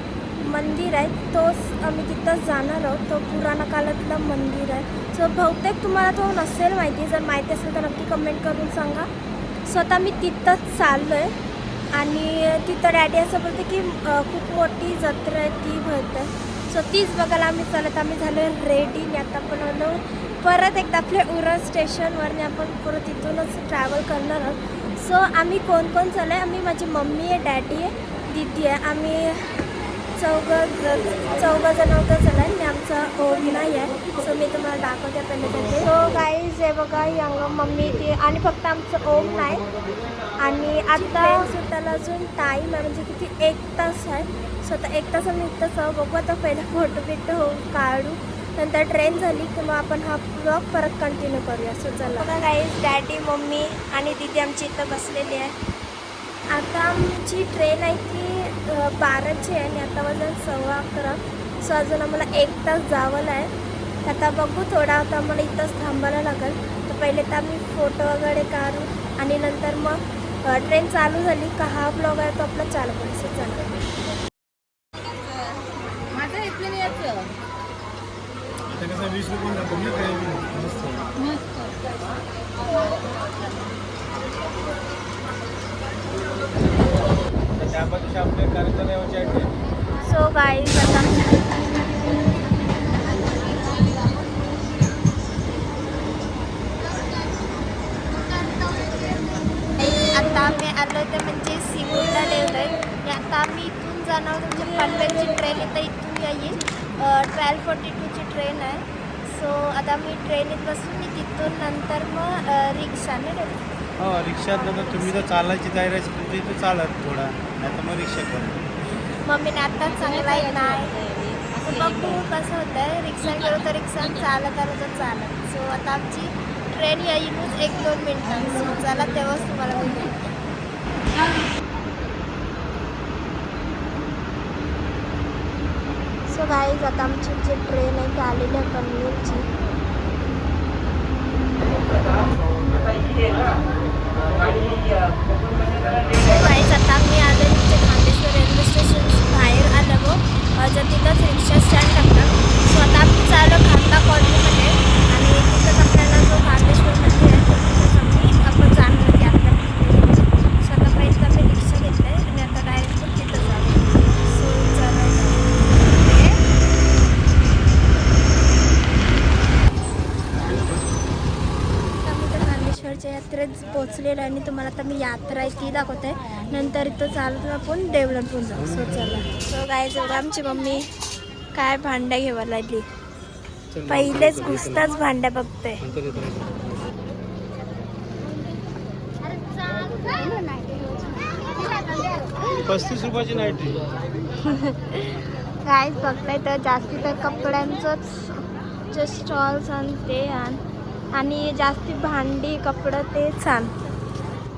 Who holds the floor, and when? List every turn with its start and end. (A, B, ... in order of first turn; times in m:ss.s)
0:00.4-0:09.1 A
0:09.7-0:11.3 A
0:11.9-0:29.5 A
0:30.2-0:39.7 A
0:40.4-0:55.6 A
0:56.5-1:03.5 A
1:04.0-1:13.9 A
1:16.1-1:17.3 B
1:18.7-1:21.1 C
1:21.2-1:21.8 B
1:27.6-1:29.5 C
1:30.0-1:31.4 A
1:38.2-1:39.5 B
1:39.8-1:53.6 A
1:54.0-1:58.7 C
1:54.5-1:55.2 A
1:59.1-2:01.0 A
1:59.9-2:02.2 B
2:01.6-2:10.2 A
2:16.3-2:19.5 A
2:26.2-2:46.4 A
2:52.0-3:00.9 A
2:58.6-2:59.0 C
3:01.5-3:02.9 A
3:03.7-3:04.9 C
3:03.9-3:05.8 A
3:05.8-3:06.9 C
3:09.2-3:12.4 B
3:12.6-3:13.8 C
3:14.4-3:20.6 A
3:21.1-3:23.7 A